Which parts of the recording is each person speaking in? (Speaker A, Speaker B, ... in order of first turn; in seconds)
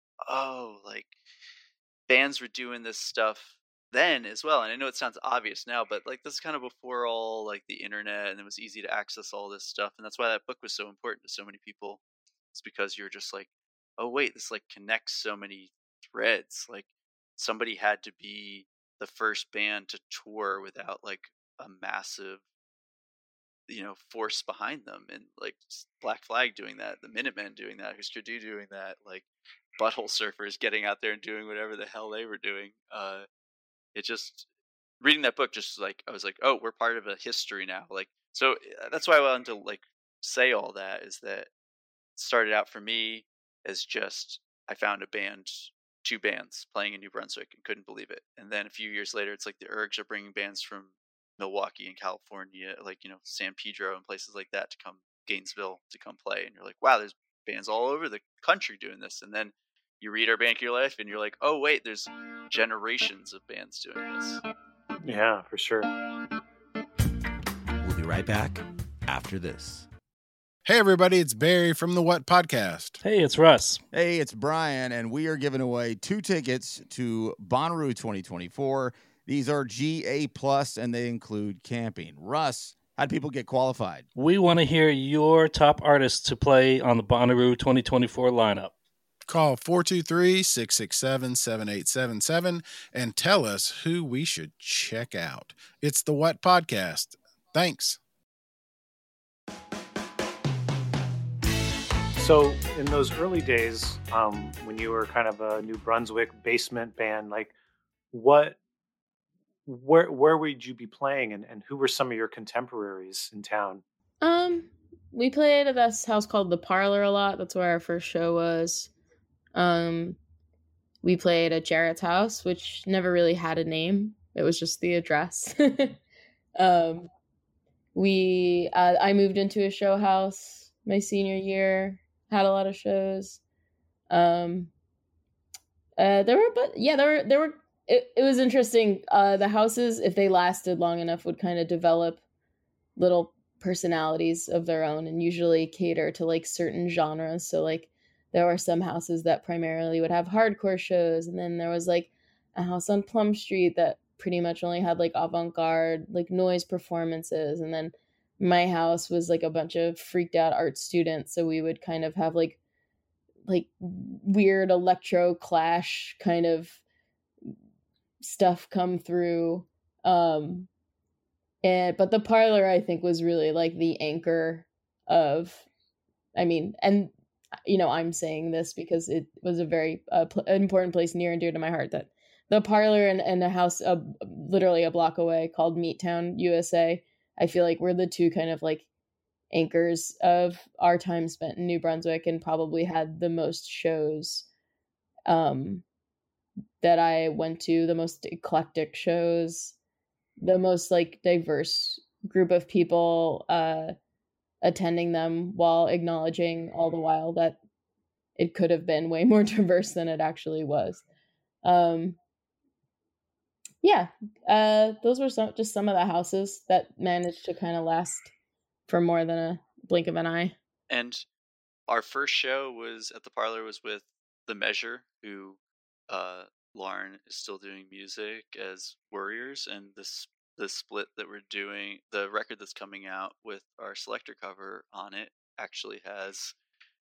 Speaker A: 0.2-1.1, 2.1-12.0, 12.5-22.4, 23.7-29.2, 29.8-33.2, 33.9-34.5, 35.0-41.5, 42.2-64.4, 220.9-221.2, 221.9-236.5
Speaker B: 65.0-65.9, 102.2-107.5, 108.1-108.6, 109.7-113.8
Speaker C: 67.8-69.8
Speaker D: 70.7-73.0, 89.3-98.0
Speaker E: 73.0-73.8, 84.2-88.7
Speaker F: 73.9-84.1
Speaker G: 114.2-118.9, 119.5-120.2, 121.0-126.0, 126.5-127.1, 127.9-133.4, 134.1-134.7, 136.0-142.2, 143.0-162.6, 163.4-166.8, 168.2-170.7, 171.6-175.6, 176.3-177.1, 177.7-188.9, 189.5-194.4, 195.3-195.8, 196.8-199.7, 200.4-203.9, 204.6-207.6, 208.4-211.0, 211.6-212.2, 213.8-218.3, 218.9-220.5